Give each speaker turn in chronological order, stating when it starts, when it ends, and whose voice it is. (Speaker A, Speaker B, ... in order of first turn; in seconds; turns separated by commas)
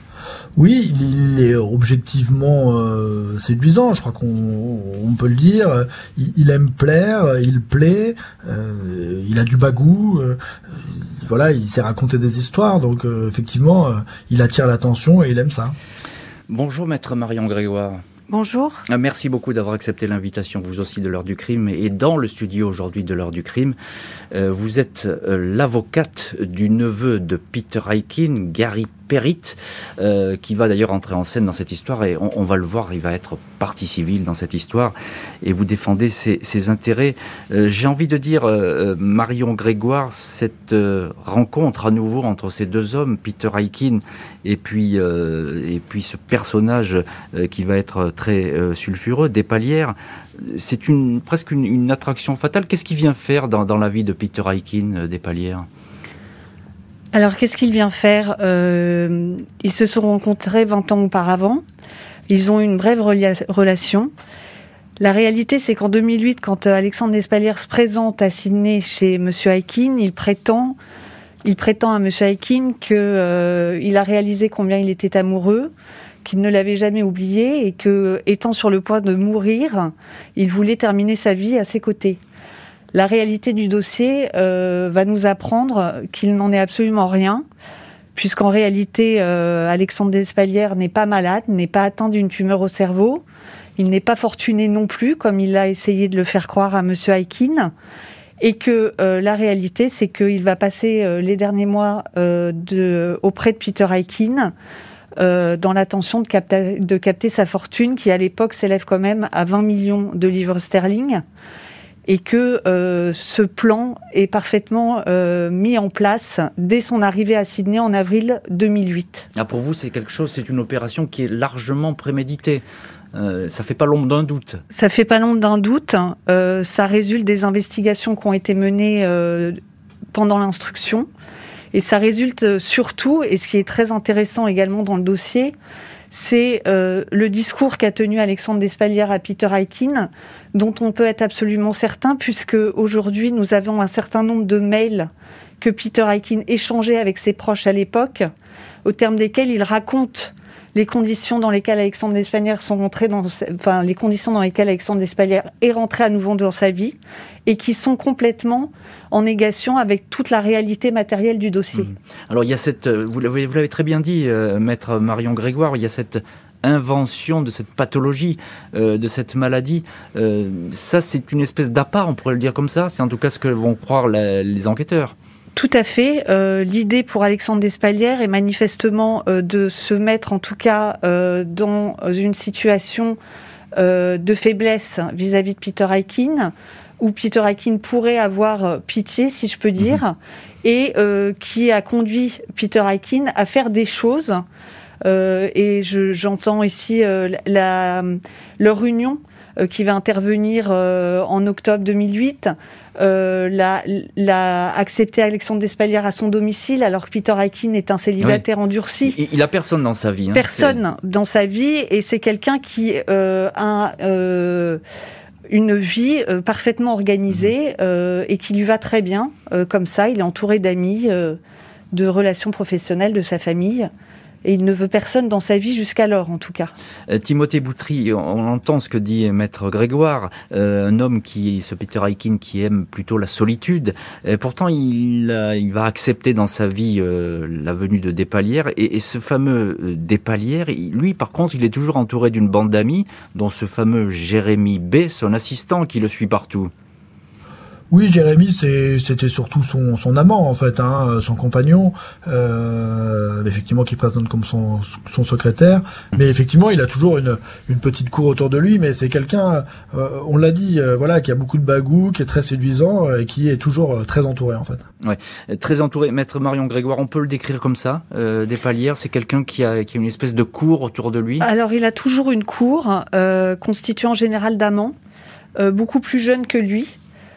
Speaker A: 0.6-15.7, Speaker B: 16.5-18.0, Speaker C: 18.3-18.8, Speaker B: 18.9-23.8, Speaker B: 24.3-55.6, Speaker C: 57.1-61.6, Speaker C: 62.3-64.1, Speaker C: 65.0-70.8, Speaker C: 71.4-75.7, Speaker C: 76.2-82.2, Speaker C: 82.9-87.4, Speaker C: 88.2-93.2, Speaker C: 93.8-97.7, Speaker C: 98.4-104.5, Speaker C: 105.2-111.2, Speaker C: 112.1-119.3, Speaker B: 119.3-124.6, Speaker C: 124.7-129.6, Speaker C: 130.1-131.1, Speaker C: 131.7-135.5, Speaker C: 136.1-148.3, Speaker C: 148.8-161.9, Speaker B: 162.3-175.1, Speaker C: 175.6-183.2, Speaker C: 183.8-194.4, Speaker C: 195.0-209.2, Speaker B: 209.0-210.8, Speaker C: 210.3-214.8, Speaker C: 215.5-221.4, Speaker C: 221.9-223.9, Speaker C: 224.4-226.7, Speaker B: 227.1-246.7, Speaker A: 247.9-264.8, Speaker B: 265.0-271.4, Speaker C: 271.4-274.9, Speaker C: 275.6-277.0